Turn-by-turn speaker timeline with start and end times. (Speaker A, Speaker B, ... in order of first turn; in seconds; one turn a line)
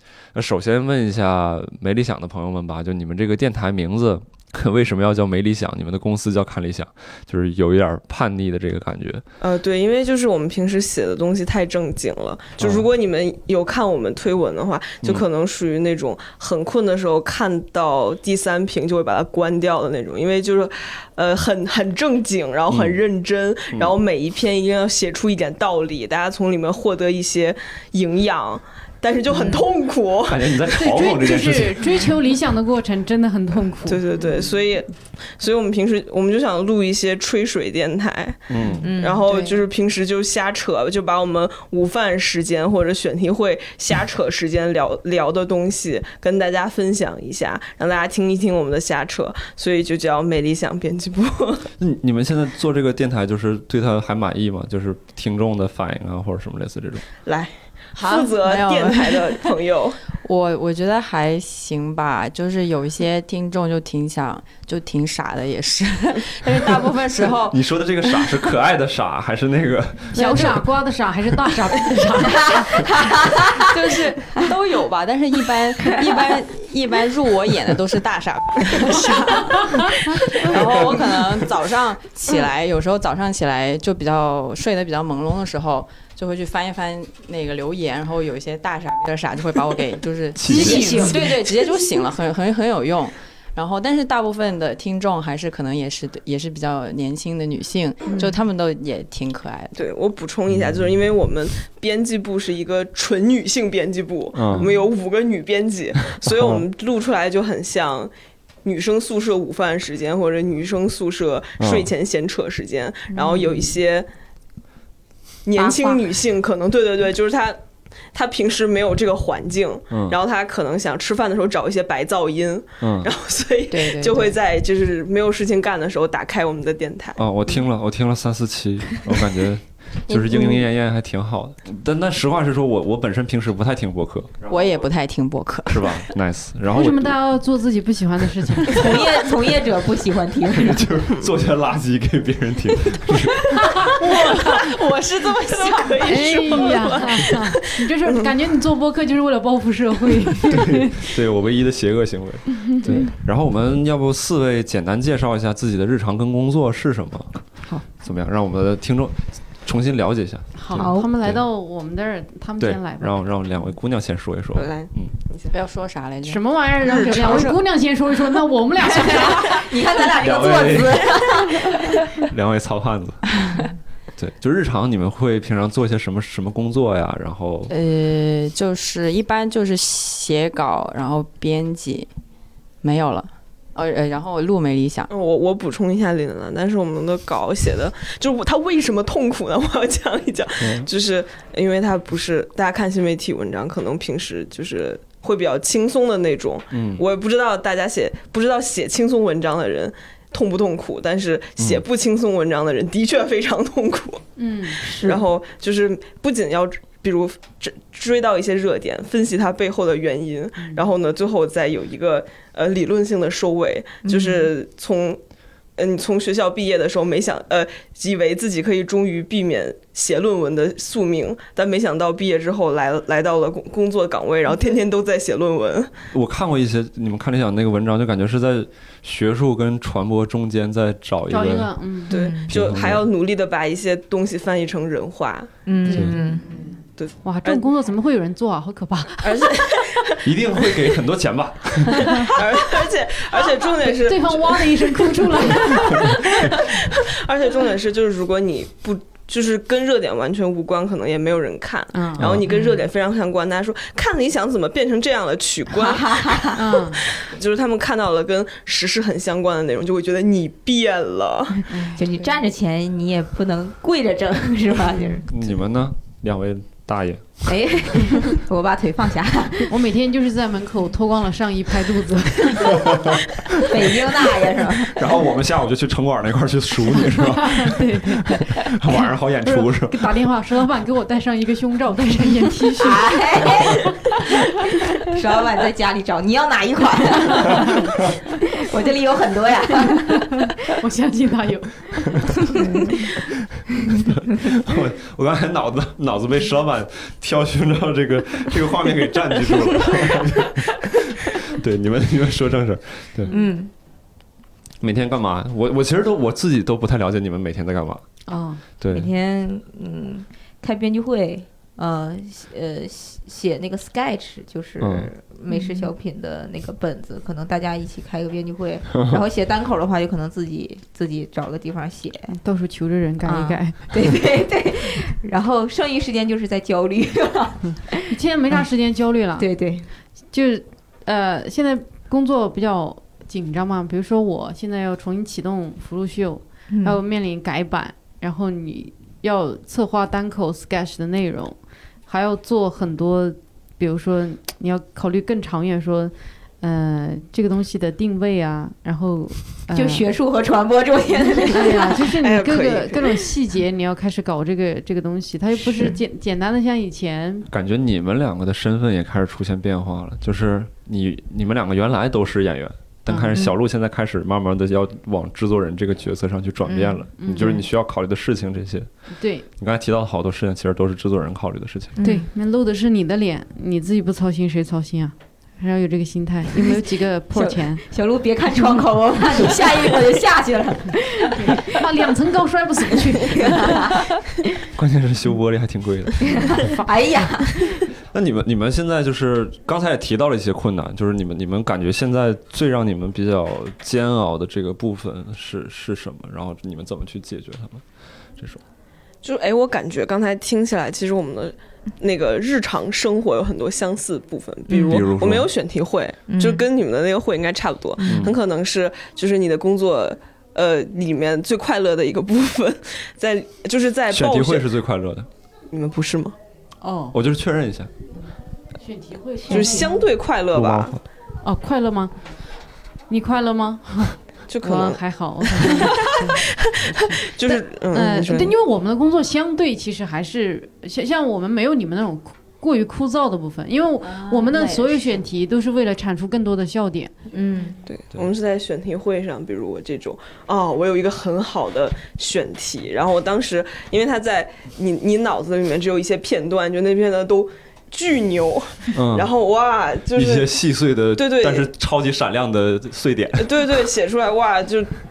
Speaker A: 0.3-9.2
Speaker B: 9.4-30.7
Speaker A: 12.6-12.8
Speaker A: 22.7-23.0
Speaker C: 29.3-29.7
Speaker A: 30.2-31.9
Speaker D: 30.8-34.0
Speaker B: 33.8-51.7
Speaker A: 38.5-38.9
Speaker C: 38.8-39.6
Speaker A: 51.8-57.0
Speaker B: 57.2-60.0
Speaker E: 58.0-59.6
Speaker E: 60.1-67.6
Speaker A: 67.5-70.3
Speaker D: 70.1-72.8
Speaker E: 70.2-70.5
Speaker C: 72.2-73.7
Speaker E: 73.6-99.9
Speaker A: 90.3-91.2
Speaker C: 90.5-91.2
Speaker B: 99.7-108.1
Speaker A: 100.5-100.8
Speaker A: 104.3-104.7
Speaker A: 106.2-106.6
Speaker B: 108.6-114.1
Speaker A: 111.6-111.9
Speaker C: 113.1-113.7
Speaker B: 115.5-117.6
Speaker C: 115.5-116.0
Speaker B: 118.1-127.2
Speaker A: 119.9-120.2
Speaker A: 122.8-123.1
Speaker E: 123.7-124.3
Speaker A: 127.2-134.8
Speaker E: 134.5-136.1
Speaker A: 135.7-137.2
Speaker D: 136.7-139.0
Speaker C: 138.7-140.9
Speaker A: 140.5-143.4
Speaker B: 143.5-144.7
Speaker D: 143.8-144.4
Speaker E: 144.0-146.8
Speaker B: 145.4-148.3
Speaker D: 146.0-151.0
Speaker A: 150.5-157.4
Speaker A: 158.0-161.4
Speaker D: 160.6-163.2
Speaker C: 160.7-161.1
Speaker A: 162.6-165.1
Speaker B: 164.5-165.5
Speaker E: 165.5-167.4
Speaker D: 166.2-169.7
Speaker B: 166.8-167.6
Speaker C: 168.8-172.2
Speaker A: 170.1-171.5
Speaker A: 172.2-173.3
Speaker A: 174.2-177.7
Speaker E: 177.7-182.1
Speaker E: 182.8-185.1
Speaker B: 185.1-204.2
Speaker A: 190.6-190.9
Speaker A: 196.7-197.0
Speaker D: 204.4-204.8
Speaker B: 204.8-215.2
Speaker C: 204.8-205.2
Speaker C: 214.0-214.5
Speaker B: 215.8-225.9
Speaker A: 226.1-231.7
Speaker D: 231.3-232.2
Speaker C: 232.1-232.5
Speaker B: 232.1-235.5
Speaker A: 232.5-233.0
Speaker C: 235.6-236.5
Speaker D: 235.8-236.3
Speaker E: 236.4-236.7
Speaker B: 237.0-237.7
Speaker D: 237.2-239.5
Speaker B: 239.2-240.7
Speaker A: 240.2-242.4
Speaker B: 242.1-261.8
Speaker D: 243.8-246.5
Speaker D: 251.9-252.2
Speaker A: 252.2-252.5
Speaker C: 252.5-252.8
Speaker C: 255.8-256.6
Speaker D: 256.5-257.0
Speaker C: 261.7-265.3
Speaker E: 261.9-262.3
Speaker A: 265.3-267.4
Speaker C: 267.5-269.7
Speaker D: 269.7-273.1
Speaker C: 273.6-275.1
Speaker A: 274.9-280.1
Speaker D: 277.3-284.1
Speaker C: 282.8-290.4
Speaker D: 287.4-287.7
Speaker D: 290.5-292.8
Speaker C: 292.5-293.0
Speaker A: 293.9-303.3
Speaker C: 303.3-303.7
Speaker A: 304.8-308.0
Speaker D: 308.3-308.6
Speaker A: 308.8-309.1
Speaker C: 308.9-322.3
Speaker A: 314.8-315.1
Speaker D: 315.5-315.9
Speaker A: 318.9-319.2
Speaker D: 322.3-323.9
Speaker C: 323.2-328.6
Speaker D: 328.1-329.5
Speaker C: 329.4-329.9
Speaker D: 330.3-341.6
Speaker C: 336.7-337.0
Speaker D: 342.1-350.1
Speaker C: 349.7-351.9
Speaker D: 351.5-357.5
Speaker B: 352.2-353.3
Speaker A: 357.5-368.9
Speaker D: 363.1-363.3
Speaker C: 366.6-367.0
Speaker D: 367.2-367.6
Speaker D: 369.2-369.4
Speaker A: 369.6-372.0
Speaker C: 371.9-372.3
Speaker D: 372.0-377.8
Speaker C: 377.3-381.8
Speaker D: 381.4-383.9
Speaker C: 383.2-384.2
Speaker A: 384.7-386.6
Speaker C: 386.3-387.8
Speaker D: 386.5-386.9
Speaker A: 388.1-397.8
Speaker B: 399.2-414.7
Speaker C: 404.7-405.1
Speaker A: 404.9-405.5
Speaker C: 406.3-406.6
Speaker C: 408.0-408.3
Speaker A: 408.1-408.3
Speaker A: 414.1-415.3
Speaker B: 415.7-416.3
Speaker D: 416.8-417.1
Speaker A: 417.1-417.9
Speaker D: 418.8-419.9
Speaker C: 419.5-419.9
Speaker B: 419.5-420.9
Speaker A: 420.5-421.0
Speaker D: 421.4-422.1
Speaker D: 423.1-437.1
Speaker B: 424.5-428.5
Speaker E: 434.0-435.2
Speaker C: 437.3-437.8
Speaker B: 437.9-450.5
Speaker A: 448.9-449.3
Speaker A: 450.1-453.6
Speaker B: 451.1-451.7
Speaker B: 453.4-454.9